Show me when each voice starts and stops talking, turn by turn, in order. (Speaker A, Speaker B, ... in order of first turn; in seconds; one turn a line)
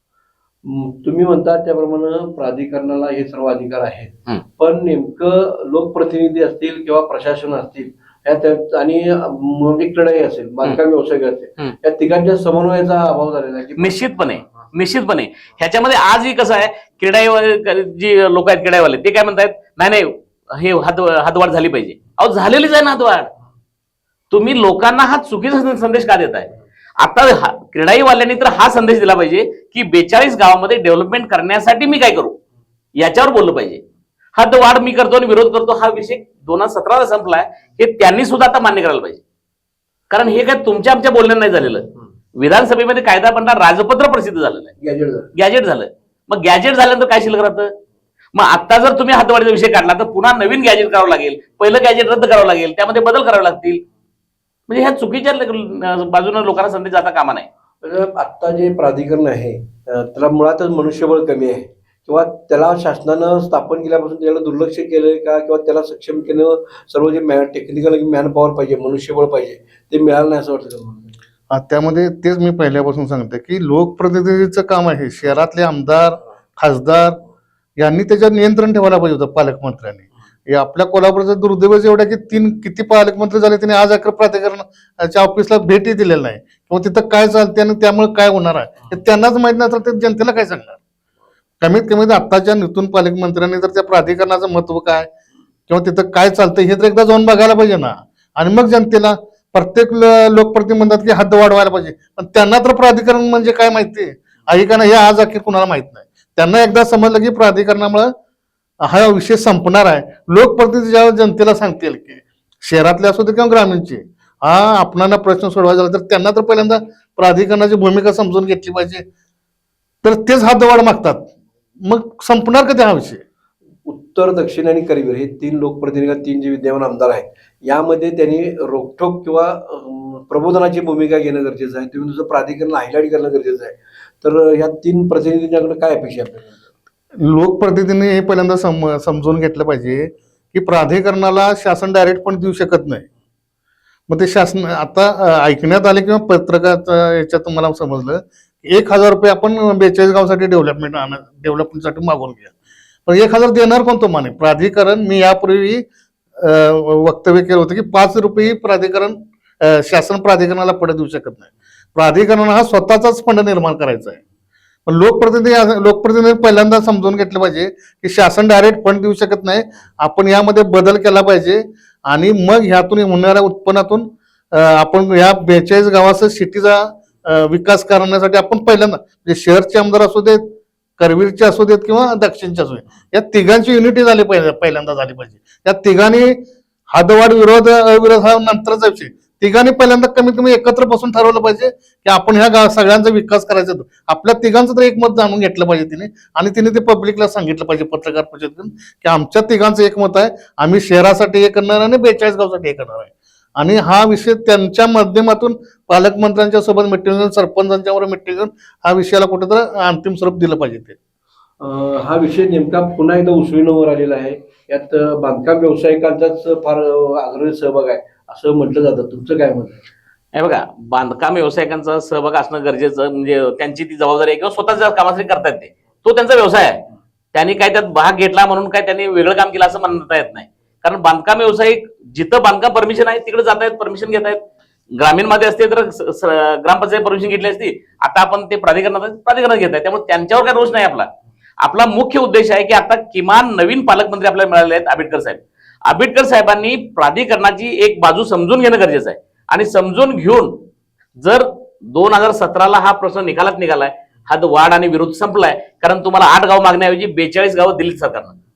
Speaker A: 0.6-14.1
Speaker B: 13.8-23.3
Speaker B: 24.3-32.4
Speaker B: 33.0-33.8
Speaker B: 34.4-39.2
Speaker B: 40.1-44.7
Speaker A: 44.8-45.3
Speaker B: 45.4-47.7
Speaker B: 48.3-53.8
Speaker B: 54.7-57.5
Speaker A: 57.8-71.2
Speaker C: 71.5-77.2
Speaker C: 77.8-90.8
Speaker C: 91.6-95.1
Speaker C: 95.7-108.1
Speaker C: 108.8-119.0
Speaker C: 120.0-121.3
Speaker C: 121.8-123.2
Speaker A: 123.8-136.6
Speaker C: 137.2-143.1
Speaker C: 144.1-152.5
Speaker C: 153.1-155.9
Speaker C: 156.4-164.2
Speaker C: 164.9-186.4
Speaker C: 186.9-211.0
Speaker A: 211.6-219.9
Speaker B: 220.3-226.8
Speaker B: 227.3-234.4
Speaker B: 235.0-241.1
Speaker B: 241.6-250.6
Speaker B: 251.2-258.4